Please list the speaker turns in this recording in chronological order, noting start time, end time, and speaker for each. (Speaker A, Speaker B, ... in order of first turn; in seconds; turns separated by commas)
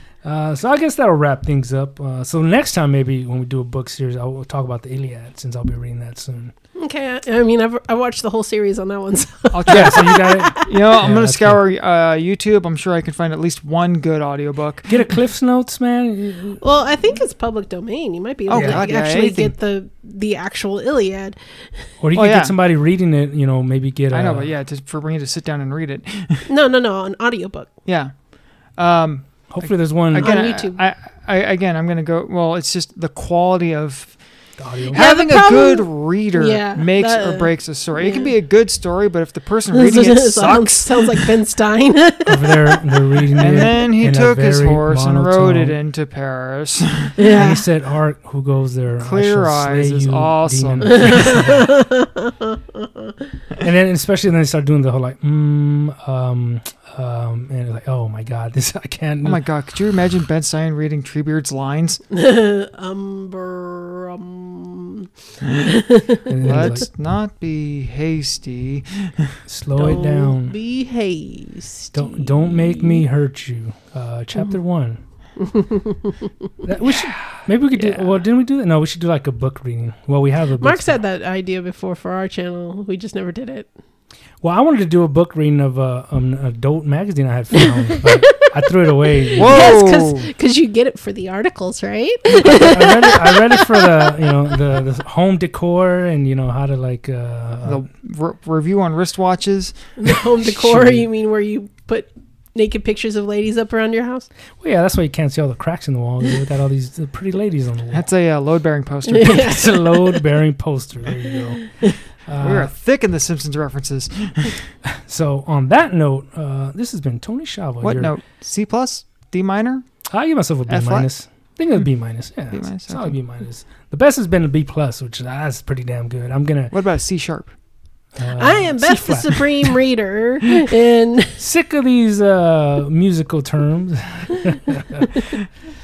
Speaker A: 0.2-6.5, Speaker B: 6.8-10.9, Speaker C: 9.5-15.1, Speaker A: 9.7-11.6, Speaker A: 14.9-16.6, Speaker B: 16.6-21.9, Speaker C: 18.5-19.5, Speaker A: 18.5-18.8, Speaker A: 22.0-24.5, Speaker C: 22.1-22.5, Speaker C: 24.1-26.5, Speaker B: 26.5-27.7, Speaker C: 27.9-28.1, Speaker C: 28.8-34.1, Speaker A: 29.5-30.4, Speaker B: 30.2-30.8, Speaker A: 34.6-35.0, Speaker B: 34.9-38.3, Speaker C: 34.9-41.3, Speaker B: 39.7-43.7, Speaker A: 42.2-45.8, Speaker C: 43.4-47.2, Speaker B: 47.2-47.6, Speaker A: 47.3-51.7, Speaker C: 49.0-51.3, Speaker B: 50.8-53.1, Speaker A: 53.6-59.4, Speaker C: 59.2-62.0, Speaker B: 62.1-66.7, Speaker C: 65.4-65.7, Speaker A: 66.2-66.9, Speaker C: 66.4-69.4, Speaker A: 69.5-70.5, Speaker B: 69.8-73.0, Speaker A: 71.9-75.0, Speaker B: 75.4-76.5, Speaker A: 76.6-81.0, Speaker B: 77.7-78.2, Speaker B: 80.6-83.7, Speaker A: 84.4-89.7, Speaker B: 87.6-94.2, Speaker C: 89.3-90.3, Speaker A: 92.3-97.8, Speaker C: 97.6-99.7, Speaker B: 100.0-104.3, Speaker A: 100.5-101.0, Speaker A: 104.6-108.1, Speaker C: 107.9-109.5, Speaker B: 109.1-110.2, Speaker A: 109.2-111.7, Speaker A: 112.3-112.7, Speaker C: 112.4-114.7, Speaker A: 114.8-118.1, Speaker C: 117.8-119.8, Speaker A: 120.1-126.7, Speaker C: 120.7-121.1, Speaker C: 122.5-123.2, Speaker C: 126.7-127.5, Speaker A: 128.2-129.8, Speaker B: 128.3-131.4, Speaker A: 131.4-135.4